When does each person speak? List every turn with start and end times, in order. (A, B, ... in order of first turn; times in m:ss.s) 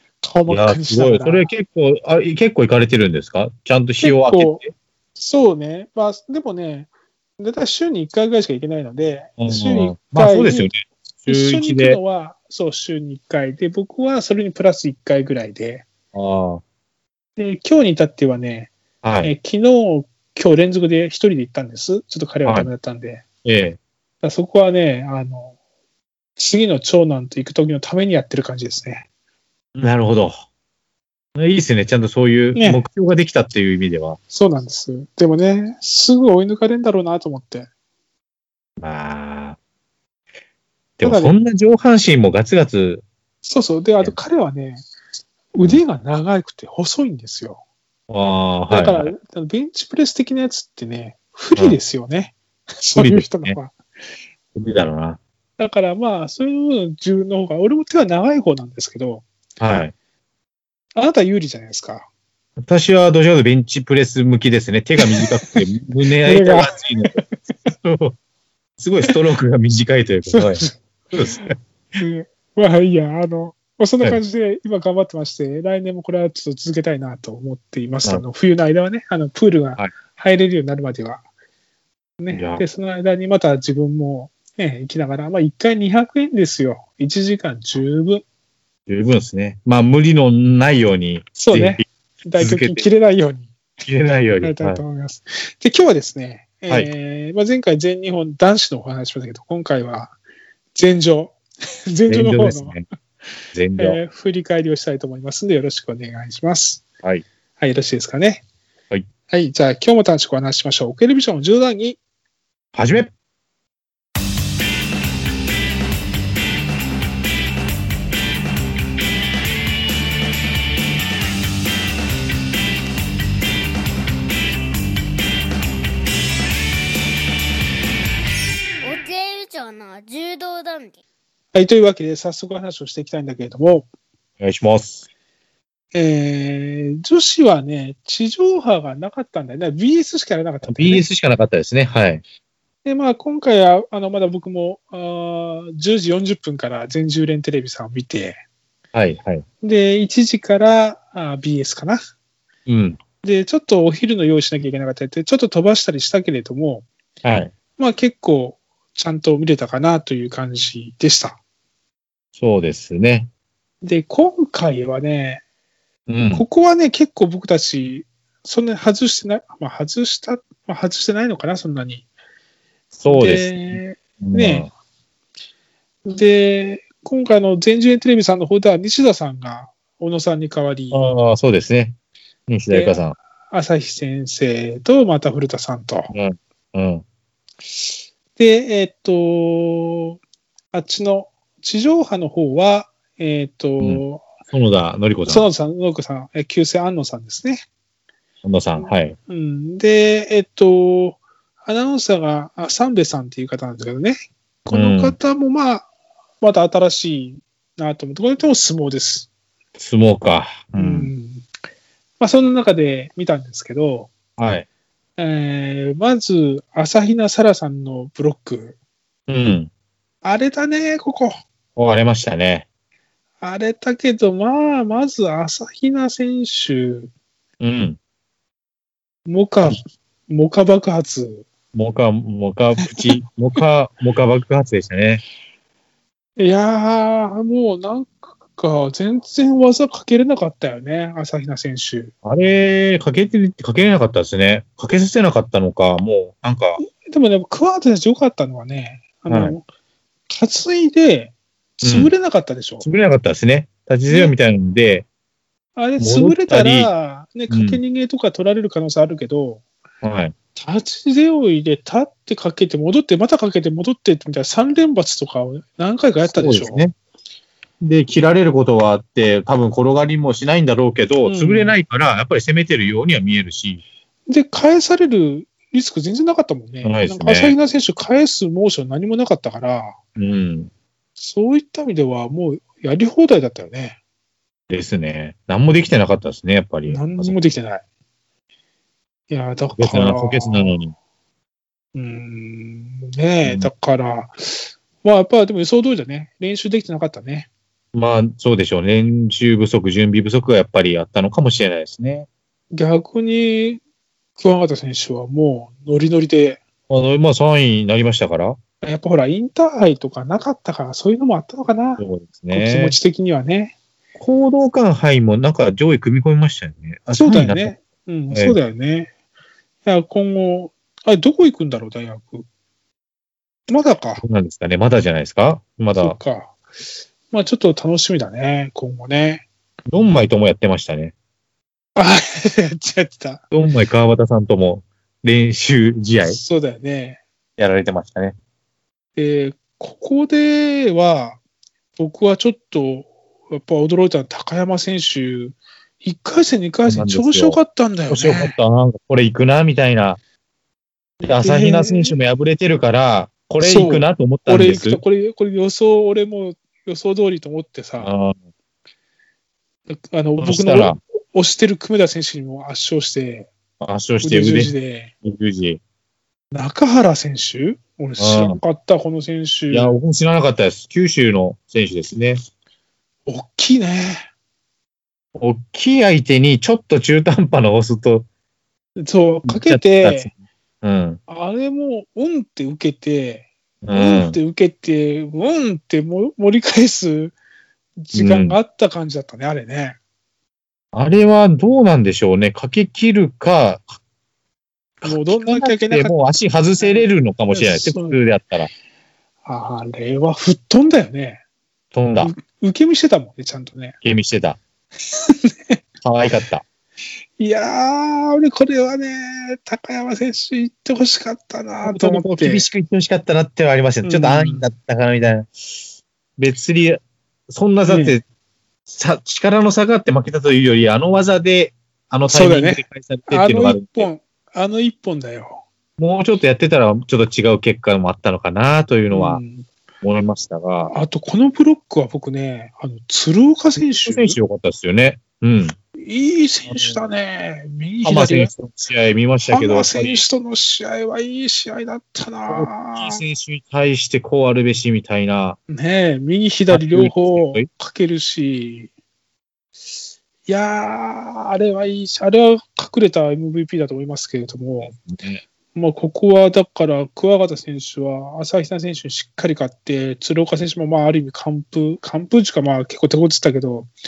0:00.2-0:01.5 A
0:00.5-0:04.7 B
0:04.0-0:04.6 A
0:05.2-0:10.7 A
0:09.4-0:12.0 B
0:11.3-0:15.9 A
0:16.1-0:16.6 B
0:17.4-0:23.2 A
0:19.0-0:19.3 B
0:22.4-0:22.7 B
0:23.4-0:23.8 B
0:24.2-0:25.5 A
0:26.4-0:29.0 A
0:29.7-0:30.4 B
0:31.3-0:34.2 B
0:32.5-0:32.8 A
0:34.3-0:37.7 A
0:38.8-0:39.6 B
0:41.0-0:43.0 B
0:41.0-0:41.4 A
0:43.4-0:44.8 A
0:45.5-0:47.6 A
0:48.1-0:49.1 B
0:48.7-0:53.7 A
0:52.9-0:53.6 B
0:54.5-0:55.2 B
0:55.6-0:59.2 A
0:59.6-0:59.9 B
1:01.0-1:02.1 A
1:02.6-1:08.2 B
1:05.0-1:05.6 A
1:06.2-1:07.3 A
1:08.8-1:11.5 B
1:10.3-1:10.8 A
1:12.0-1:21.2 A
1:22.2-1:28.2 A
1:22.3-1:22.6 B
1:28.9-1:31.8 B
1:31.4-1:33.5 A
1:32.4-1:32.8 B
1:33.8-1:34.8 B
1:34.4-1:40.1 A
1:40.7-1:42.8 A
1:42.1-1:42.8 B
1:43.5-1:44.0 B
1:43.8-1:46.8 A
1:47.6-1:48.4 A
1:49.3-1:52.0 A
1:52.7-1:53.1 B
2:08.8-2:11.0 C
2:11.5-2:13.9 A
2:14.4-2:15.0 B
2:15.9-2:21.0 A
2:20.6-2:22.2 B
2:22.8-2:28.4 A
2:28.9-2:29.4 B
2:29.6-2:32.0 A
2:32.7-2:33.0 B
2:33.2-2:36.8 A
2:37.2-2:37.5 B
2:37.8-2:41.4 A
2:42.4-2:43.3 B
2:43.8-2:45.4 A
2:46.1-2:46.4 B
2:46.3-2:52.0 A
2:52.9-2:54.7 B
2:53.1-2:54.7 A
2:56.0-3:01.0 A
3:00.9-3:02.0 B
3:02.5-3:03.2 B
3:02.7-3:06.1 A
3:06.1-3:07.0 B
3:08.4-3:10.2 A
3:10.7-3:14.3 A
3:13.8-3:15.4 B
3:15.3-3:17.6 A
3:18.4-3:19.2 B
3:18.8-3:25.9 A
3:24.7-3:25.2 B
3:26.4-3:29.3 A
3:29.8-3:31.1 B
3:30.7-3:31.5 A
3:32.2-3:34.1 A
3:34.4-3:34.6 B
3:35.2-3:38.8 A
3:39.3-3:39.7 B
3:40.2-3:41.4 A
3:41.8-3:42.6 B
3:43.4-3:47.1 A
3:47.6-3:48.0 B
3:49.2-3:51.5 A
3:51.7-3:55.2 B
3:52.8-3:53.2 A
3:56.4-4:02.1 A
4:02.2-4:06.8 B
4:06.8-4:09.6 A
4:09.3-4:09.6 B
4:10.3-4:12.8 A
4:11.8-4:12.1 B
4:12.8-4:15.0 B
4:14.1-4:14.3 A
4:15.8-4:19.6 A
4:16.0-4:16.9 B
4:17.5-4:17.8 B
4:20.0-4:20.3 B
4:20.6-4:26.8 A
4:26.2-4:26.9 B
4:27.8-4:33.8 B
4:31.2-4:31.8 A
4:34.3-4:40.0 A
4:36.8-4:37.5 B
4:40.2-4:40.7 B
4:41.2-4:44.0 A
4:44.7-4:47.3 B
4:46.9-4:47.8 A
4:49.3-4:50.8 A
4:49.8-4:50.9 B
4:51.9-4:57.5 A
4:53.4-4:53.7 B
4:57.9-5:02.3 B
5:02.7-5:03.8 A
5:04.4-5:06.6 A
5:06.9-5:08.6 B
5:08.8-5:13.7 A
5:12.0-5:13.0 B
5:14.2-5:17.7 B
5:17.1-5:19.1 A
5:18.3-5:18.6 B
5:19.8-5:22.5 A
5:23.7-5:24.2 A
5:24.2-5:26.2 B
5:26.0-5:26.5 A
5:27.3-5:29.4 A
5:29.9-5:31.1 B
5:31.9-5:33.4 A
5:33.5-5:36.4 B
5:36.2-5:37.2 A
5:37.6-5:38.4 B
5:39.2-5:41.4 A
5:42.0-5:48.6 A
5:46.9-5:47.6 B
5:48.1-5:50.2 B
5:51.2-5:52.2 A
5:51.2-5:55.0 B
5:53.6-5:58.1 A
5:58.0-5:58.4 B
5:59.9-6:03.5 A
6:00.4-6:01.0 B
6:03.8-6:04.7 B
6:04.2-6:05.1 A
6:05.2-6:05.8 B
6:06.5-6:10.0 A
6:08.2-6:08.6 B
6:09.7-6:12.4 B
6:13.2-6:14.3 A
6:15.3-6:18.3 B
6:19.0-6:20.3 A
6:19.4-6:21.2 B
6:21.3-6:27.3 A
6:23.8-6:24.4 B
6:28.0-6:30.0 A
6:28.1-6:28.6 B
6:30.9-6:34.0 B
6:35.0-6:38.7 B
6:35.0-6:36.1 A
6:36.8-6:38.2 A
6:39.4-6:41.4 A
6:41.9-6:42.3 B
6:42.2-6:44.0 A
6:44.0-6:44.6 B
6:45.1-6:45.8 A
6:46.0-6:46.6 B
6:47.4-6:52.7 A
6:51.8-6:55.5 B
6:54.0-6:54.7 A
6:56.4-6:58.2 B
6:57.9-6:58.2 A
6:58.9-7:04.1 B
7:02.2-7:05.6 A
7:06.0-7:09.4 B
7:09.1-7:09.7 A
7:10.0-7:10.9 B
7:10.9-7:14.4 A
7:13.8-7:15.7 B
7:16.0-7:18.5 A
7:16.7-7:17.0 B
7:18.0-7:20.2 B
7:19.5-7:23.2 A
7:22.5-7:25.6 B
7:25.7-7:28.9 A
7:26.7-7:27.7 B
7:30.4-7:34.9 A
7:34.8-7:35.4 B
7:35.7-7:43.9 A